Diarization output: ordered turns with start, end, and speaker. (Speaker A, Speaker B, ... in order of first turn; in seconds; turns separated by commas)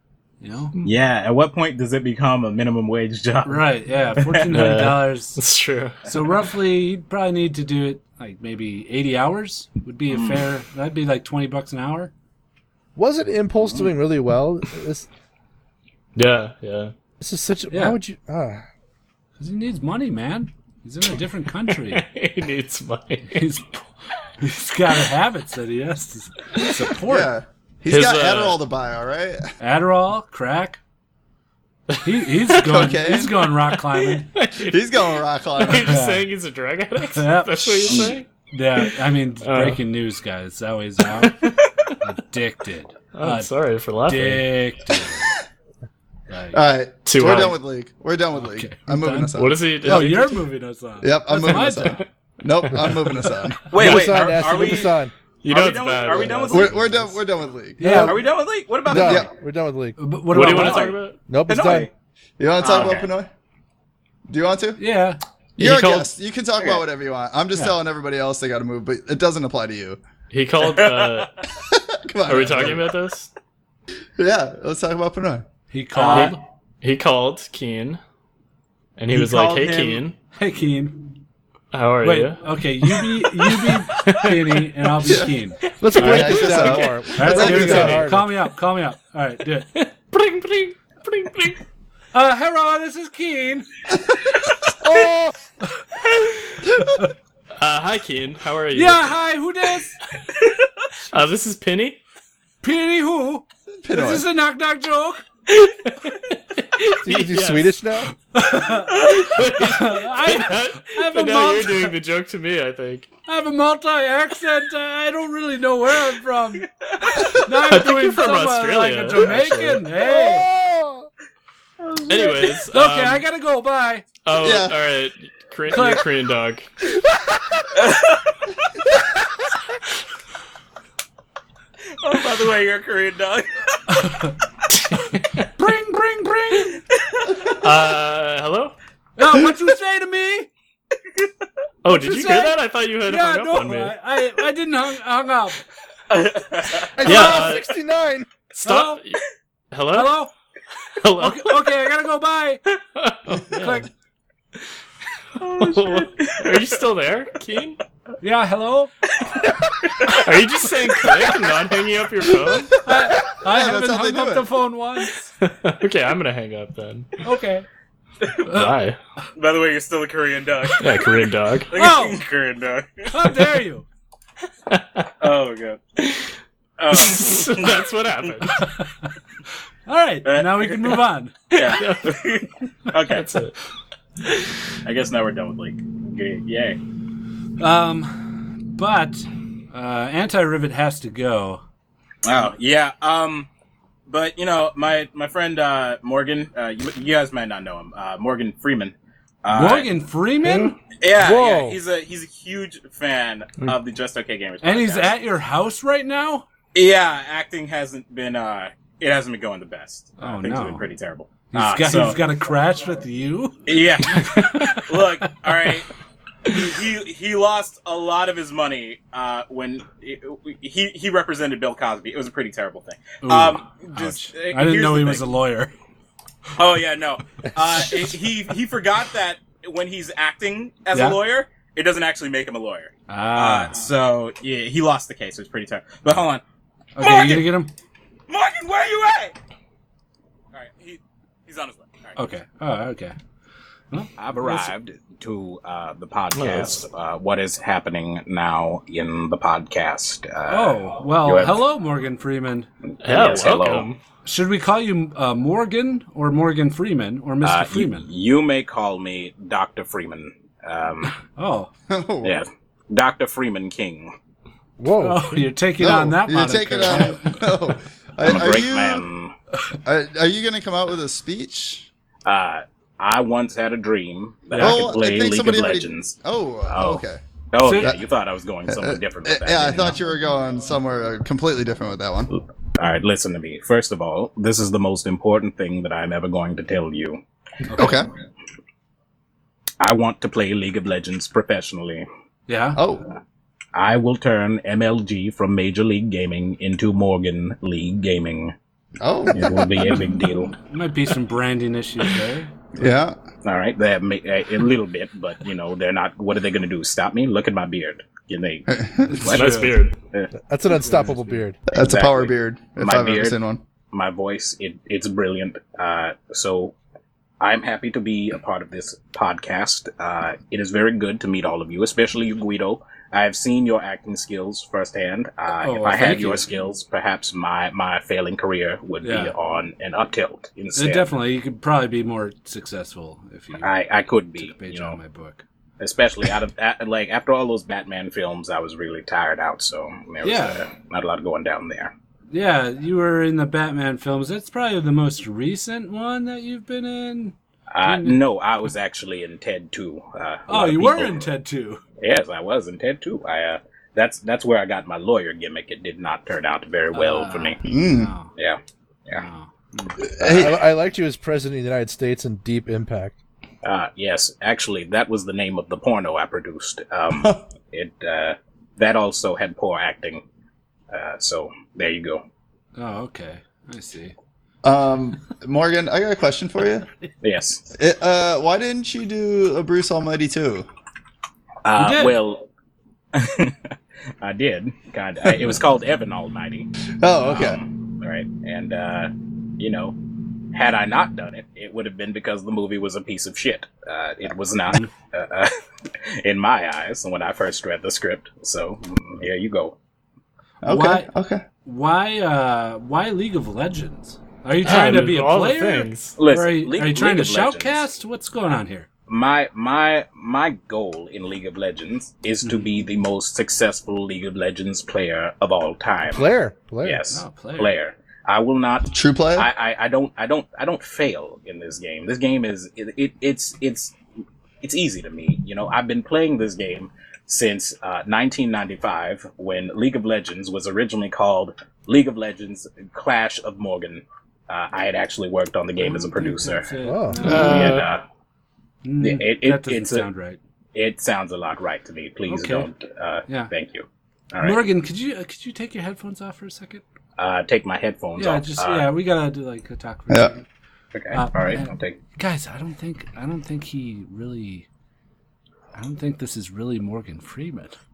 Speaker A: 0.4-0.7, Speaker B: 0.8-4.4, Speaker A: 3.5-5.4, Speaker C: 4.5-6.0, Speaker A: 6.0-12.1, Speaker B: 10.1-10.5, Speaker D: 13.0-15.1, Speaker B: 13.6-13.9, Speaker C: 16.2-16.9, Speaker D: 17.2-18.6, Speaker A: 17.7-18.0, Speaker A: 19.4-22.1, Speaker C: 21.7-23.5, Speaker A: 23.3-23.9, Speaker A: 24.4-27.3, Speaker E: 27.1-29.4, Speaker C: 27.9-28.6, Speaker A: 29.6-30.8, Speaker A: 32.0-34.3, Speaker E: 32.6-33.4, Speaker C: 33.9-38.3, Speaker E: 34.6-36.0, Speaker A: 35.6-36.3, Speaker A: 37.1-41.4, Speaker C: 39.4-39.8, Speaker C: 41.2-42.0, Speaker A: 42.0-43.5, Speaker C: 43.1-44.6, Speaker A: 44.0-45.4, Speaker A: 46.3-46.6, Speaker E: 46.5-50.0, Speaker C: 47.0-47.6, Speaker A: 48.4-52.0, Speaker C: 49.3-50.4, Speaker E: 51.0-53.7, Speaker B: 53.7-56.8, Speaker D: 53.7-55.1, Speaker C: 55.4-56.8, Speaker A: 56.2-56.9, Speaker E: 56.5-58.2, Speaker A: 57.8-58.1, Speaker D: 57.8-58.2, Speaker B: 58.0-59.3, Speaker D: 58.9-60.1, Speaker E: 58.9-59.3, Speaker A: 60.0-60.9, Speaker C: 60.3-61.2, Speaker B: 60.4-61.9, Speaker D: 61.3-61.9, Speaker E: 62.4-63.3, Speaker B: 62.6-63.1, Speaker E: 64.3-64.8, Speaker A: 64.8-65.2, Speaker E: 65.6-70.0, Speaker C: 65.6-66.1, Speaker C: 70.3-71.3, Speaker B: 70.7-71.2, Speaker E: 71.7-72.8, Speaker C: 72.2-73.3, Speaker E: 74.2-75.5, Speaker A: 75.7-76.4, Speaker B: 76.0-76.3, Speaker C: 76.1-78.0, Speaker C: 79.0-80.2, Speaker E: 79.1-80.0, Speaker A: 80.4-81.2, Speaker C: 81.7-84.7, Speaker A: 82.0-85.6, Speaker D: 85.8-88.3, Speaker C: 85.9-88.0, Speaker E: 86.0-88.0, Speaker A: 87.1-89.7, Speaker C: 89.8-91.6, Speaker A: 92.1-93.7, Speaker D: 94.8-95.3, Speaker A: 96.8-97.1, Speaker C: 97.6-99.2, Speaker A: 98.7-100.0, Speaker C: 101.1-102.0, Speaker A: 102.6-105.2, Speaker E: 103.8-104.3, Speaker C: 105.5-107.8, Speaker D: 107.0-108.1, Speaker A: 108.3-112.0, Speaker C: 109.0-113.1, Speaker A: 113.3-116.7, Speaker A: 117.3-120.5, Speaker C: 117.5-119.8, Speaker D: 120.0-121.1, Speaker C: 122.1-123.2, Speaker A: 122.7-124.0, Speaker C: 124.2-126.7, Speaker E: 124.4-124.8, Speaker A: 125.7-126.0, Speaker B: 127.8-128.2, Speaker B: 132.0-133.5, Speaker A: 133.9-134.3, Speaker C: 134.7-135.4, Speaker A: 135.6-136.8, Speaker C: 137.6-138.8, Speaker A: 139.2-140.5, Speaker C: 141.8-143.9, Speaker A: 141.9-145.6, Speaker B: 146.1-146.9, Speaker D: 147.0-148.3, Speaker C: 147.0-147.8, Speaker A: 147.1-147.5, Speaker C: 148.5-150.3, Speaker A: 148.6-149.0, Speaker A: 149.9-150.3, Speaker C: 151.0-151.7, Speaker A: 151.2-152.6, Speaker C: 153.0-153.9, Speaker A: 153.6-153.9, Speaker B: 155.4-156.7, Speaker C: 155.5-157.8, Speaker A: 158.2-158.9, Speaker C: 160.2-162.8, Speaker A: 162.8-165.3, Speaker E: 163.0-164.5, Speaker C: 165.4-167.1, Speaker A: 167.2-167.7, Speaker A: 168.5-168.7, Speaker C: 168.5-169.0, Speaker B: 169.4-171.1, Speaker C: 170.8-171.7, Speaker B: 171.7-173.1, Speaker A: 171.8-172.2, Speaker A: 173.1-173.9, Speaker C: 174.7-175.1, Speaker B: 175.2-175.8, Speaker B: 176.8-177.8, Speaker C: 176.9-178.7, Speaker A: 178.6-179.1, Speaker A: 179.9-181.3, Speaker B: 180.3-181.0, Speaker C: 181.5-182.2, Speaker B: 181.5-183.2, Speaker C: 183.1-183.6, Speaker B: 184.9-186.8, Speaker A: 187.6-191.6, Speaker B: 192.3-193.5, Speaker B: 194.1-199.9, Speaker A: 199.5-200.8, Speaker D: 200.5-201.8, Speaker B: 201.0-205.1, Speaker A: 204.6-206.4, Speaker B: 206.8-212.2, Speaker A: 210.2-210.8, Speaker A: 211.5-215.3, Speaker B: 213.7-215.9, Speaker B: 216.5-225.3, Speaker A: 223.2-225.7, Speaker B: 226.6-236.4, Speaker A: 230.9-231.2, Speaker A: 233.1-233.8, Speaker A: 237.0-237.7, Speaker B: 237.0-237.5, Speaker B: 238.3-239.3, Speaker B: 240.5-242.2, Speaker A: 242.2-243.2, Speaker A: 243.9-244.7, Speaker B: 244.2-251.6, Speaker C: 246.3-246.8, Speaker A: 250.5-252.7, Speaker C: 253.0-254.0, Speaker B: 253.1-253.9, Speaker A: 254.2-258.1, Speaker B: 257.4-261.1, Speaker A: 261.4-261.7, Speaker E: 261.9-262.4, Speaker B: 262.2-264.1, Speaker D: 264.8-265.3, Speaker A: 265.0-267.4, Speaker E: 265.8-269.1, Speaker B: 268.2-269.3, Speaker E: 269.9-271.9, Speaker B: 272.3-276.2, Speaker A: 274.5-274.9, Speaker E: 274.6-277.2, Speaker B: 276.7-279.9, Speaker A: 277.6-277.9, Speaker E: 277.8-278.1, Speaker E: 278.7-282.3, Speaker B: 282.3-287.2, Speaker A: 287.7-288.0, Speaker E: 287.8-288.1, Speaker B: 289.8-292.1, Speaker A: 292.5-292.8, Speaker E: 292.8-293.1, Speaker B: 293.8-298.5, Speaker E: 299.0-300.0, Speaker B: 299.3-300.6, Speaker A: 300.7-302.5, Speaker E: 302.8-303.2, Speaker B: 303.4-308.7, Speaker E: 308.7-309.3, Speaker A: 309.1-309.8, Speaker C: 309.2-309.9, Speaker D: 310.5-311.6, Speaker A: 310.9-311.4, Speaker E: 311.7-313.6, Speaker B: 311.8-313.4, Speaker B: 313.9-316.8, Speaker B: 317.4-331.1, Speaker A: 325.6-326.5, Speaker A: 329.0-329.3, Speaker A: 330.8-333.7, Speaker B: 333.6-335.0, Speaker A: 334.4-335.4, Speaker B: 335.8-341.9, Speaker A: 340.2-340.6, Speaker A: 342.3-348.2, Speaker B: 347.7-351.3, Speaker A: 350.5-351.8, Speaker B: 352.0-357.6, Speaker A: 356.9-358.3, Speaker E: 357.6-358.1, Speaker B: 358.4-359.2, Speaker A: 359.2-360.0, Speaker E: 360.0-360.6, Speaker D: 360.2-363.2, Speaker B: 363.6-370.2, Speaker E: 367.1-367.4, Speaker B: 370.9-372.2, Speaker A: 372.8-374.1, Speaker E: 374.6-376.9, Speaker B: 377.2-377.6, Speaker E: 377.8-380.7, Speaker B: 381.6-382.5, Speaker A: 381.8-382.2, Speaker B: 383.1-383.6, Speaker B: 384.2-386.7, Speaker E: 387.0-387.6, Speaker B: 387.3-390.0, Speaker B: 390.5-395.5, Speaker B: 396.2-399.8, Speaker E: 400.6-401.4, Speaker A: 400.7-401.1, Speaker A: 401.6-408.9, Speaker C: 404.6-406.2, Speaker B: 406.2-407.8, Speaker B: 409.1-416.3, Speaker D: 416.1-417.0, Speaker B: 416.8-423.9, Speaker A: 417.1-417.8, Speaker E: 418.9-419.5, Speaker B: 424.6-436.7, Speaker A: 435.8-437.8, Speaker D: 436.8-437.4, Speaker C: 437.2-437.9, Speaker B: 437.2-438.0, Speaker A: 438.8-440.4, Speaker B: 439.0-440.1, Speaker B: 440.8-444.6, Speaker A: 442.3-442.7, Speaker A: 444.4-446.8, Speaker B: 447.2-448.9, Speaker A: 448.2-450.4, Speaker B: 450.9-452.0, Speaker A: 451.1-454.7, Speaker A: 455.8-457.8